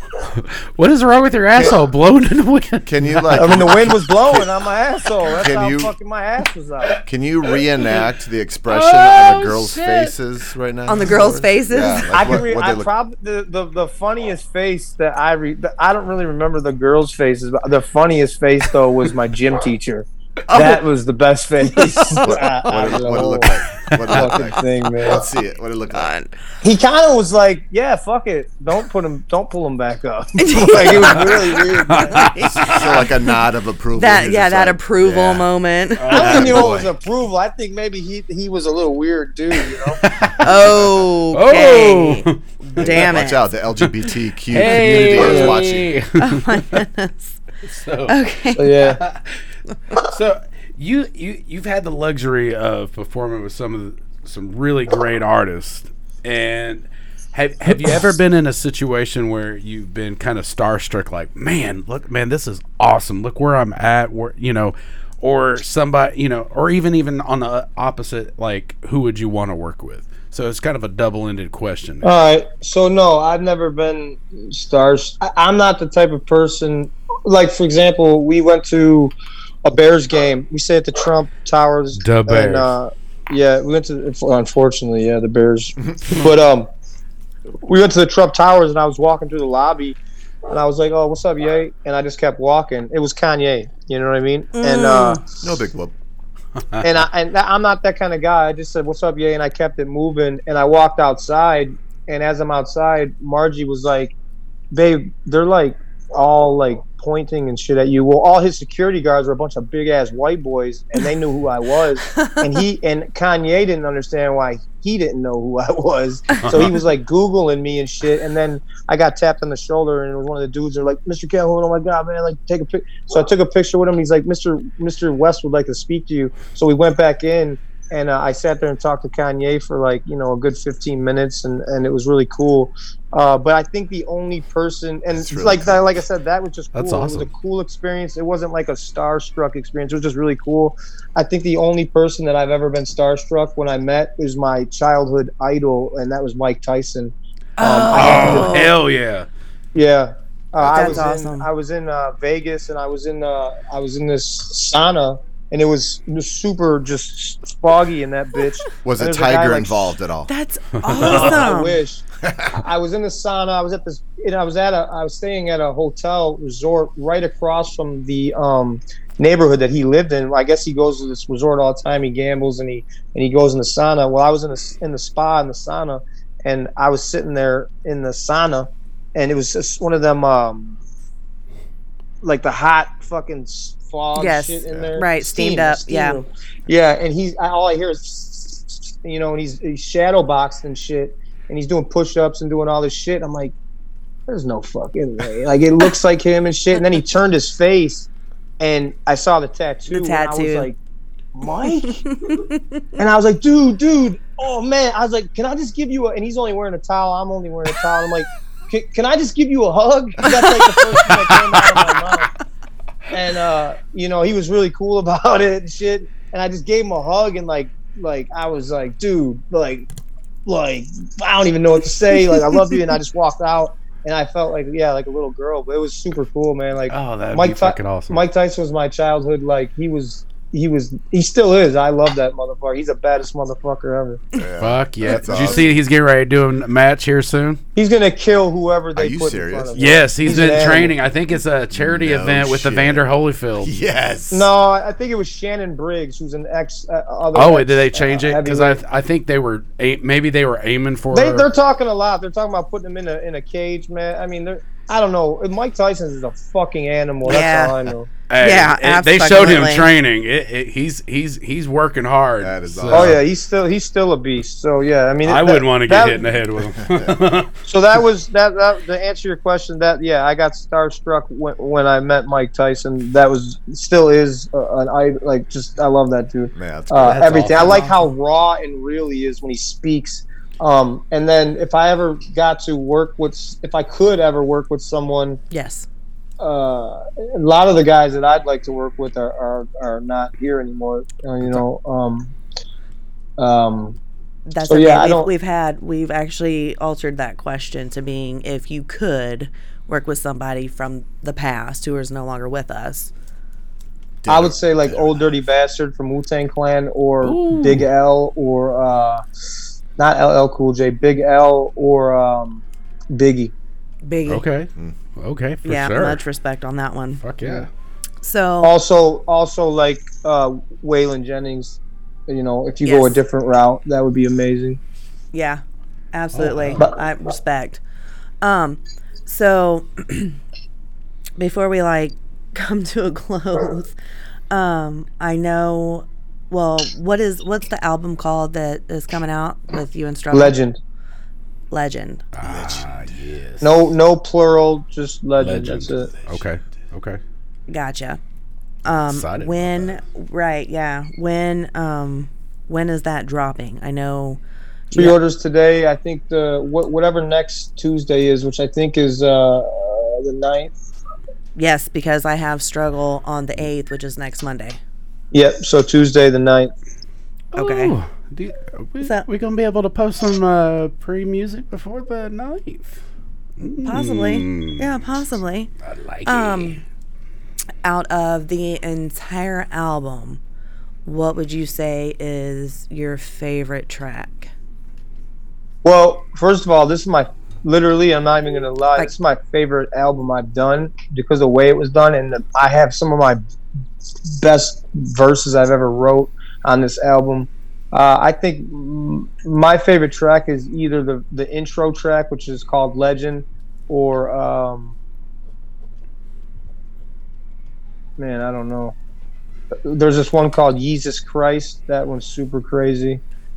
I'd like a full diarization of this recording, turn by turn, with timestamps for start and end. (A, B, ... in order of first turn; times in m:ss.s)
0:00.1-0:03.7 A
0:01.5-0:01.8 B
0:02.8-0:04.4 B
0:03.4-0:07.0 C
0:05.3-0:05.9 B
0:07.0-0:12.9 B
0:08.7-0:10.1 A
0:10.9-0:12.1 D
0:12.1-0:25.2 C
0:20.5-0:20.8 B
0:22.1-0:26.1 B
0:23.8-0:24.3 A
0:25.9-0:26.3 D
0:26.6-0:32.4 C
0:30.4-0:32.8 D
0:31.9-0:32.9 A
0:32.5-0:35.4 B
0:33.9-0:36.4 D
0:36.0-0:36.6 A
0:36.1-0:36.9 B
0:36.1-0:40.0 C
0:40.0-0:40.8 A
0:40.4-0:43.5 D
0:41.3-0:43.0 A
0:42.8-0:46.0 B
0:44.5-0:46.8 A
0:45.1-0:45.6 C
0:46.2-0:47.4 D
0:47.6-0:48.2 A
0:48.1-0:48.8 D
0:48.6-0:49.0 C
0:48.8-1:12.1 A
0:57.7-0:58.0 C
1:12.0-1:19.1 C
1:19.6-1:26.7 C
1:21.9-1:22.7 A
1:25.8-1:26.1 B
1:27.6-1:35.2 C
1:34.5-1:35.2 D
1:35.4-1:35.9 B
1:36.8-1:44.1 C
1:44.7-2:28.7 C
1:52.1-1:52.5 D
1:56.4-1:56.7 D
2:15.1-2:15.8 B
2:16.7-2:17.3 A
2:27.6-2:28.7 D
2:27.6-2:29.3 A
2:29.7-2:39.9 C
2:30.6-2:31.1 B
2:30.7-2:31.5 D
2:38.8-2:40.3 B
2:40.3-2:41.8 D
2:40.8-2:41.4 A
2:40.9-2:42.0 C
2:42.2-2:42.6 B
2:42.6-3:00.8 C
3:02.2-3:13.5 C
3:04.1-3:06.2 D
3:14.3-3:18.1 C
3:18.6-3:20.8 C
3:19.9-3:20.7 D
3:21.3-3:22.1 C
3:21.6-3:22.8 D
3:23.0-3:32.3 C
3:30.3-3:30.8 D
3:30.9-3:32.0 A
3:33.1-3:39.9 C
3:40.4-3:54.2 C
3:46.9-3:48.2 A
3:54.4-3:55.7 B
3:54.6-3:57.6 A
3:57.7-4:00.9 C
3:58.9-4:00.5 B
3:59.7-4:03.7 A
4:01.7-4:03.0 B
4:03.6-4:04.5 B
4:04.3-4:08.8 C
4:07.3-4:11.5 A
4:11.1-4:18.1 C
4:17.2-4:17.7 D
4:18.3-4:23.2 A
4:18.4-4:19.9 D
4:22.4-4:23.2 B
4:22.9-4:26.3 C
4:25.2-4:27.5 A
4:26.7-4:27.2 B
4:27.6-4:45.4 C
4:36.6-4:37.8 B
4:37.0-4:38.1 A
4:45.5-4:45.9 D
4:46.4-4:52.3 C
4:53.4-4:54.0 C
4:54.5-5:03.1 D
4:54.6-4:55.3 C
5:04.2-5:05.4 B
5:04.3-5:09.2 C
5:07.2-5:07.9 A
5:10.0-5:13.5 C
5:14.0-5:14.4 D
5:14.3-5:16.2 A
5:15.6-5:17.2 D
5:17.2-5:17.7 A
5:18.2-5:18.7 D
5:18.6-5:24.8 C
5:22.8-5:23.2 D
5:25.3-5:25.6 D
5:26.1-5:27.8 D
5:26.4-5:26.8 A
5:28.4-5:30.4 D
5:31.4-5:33.9 D
5:34.5-5:40.6 D
5:40.3-5:40.8 C
5:41.7-5:42.2 D
5:42.3-5:43.7 A
5:42.4-5:43.2 B
5:43.6-5:46.1 C
5:45.4-5:47.2 A
5:46.2-5:46.5 B
5:47.7-5:48.2 D
5:48.8-5:54.4 D
5:48.9-5:49.9 A
5:54.9-5:55.2 D
5:54.9-6:00.7 C
6:01.6-6:04.8 D
6:05.3-6:06.7 C
6:07.5-6:13.0 A
6:07.6-6:07.9 D
6:09.0-6:09.2 D
6:13.6-6:14.9 A
6:13.8-6:15.7 D
6:15.8-6:16.8 A
6:16.2-6:16.8 D
6:17.8-6:20.4 D
6:21.0-6:24.5 D
6:25.8-6:33.4 C
6:34.3-6:44.9 C
6:48.2-6:48.9 C
6:49.8-6:53.2 C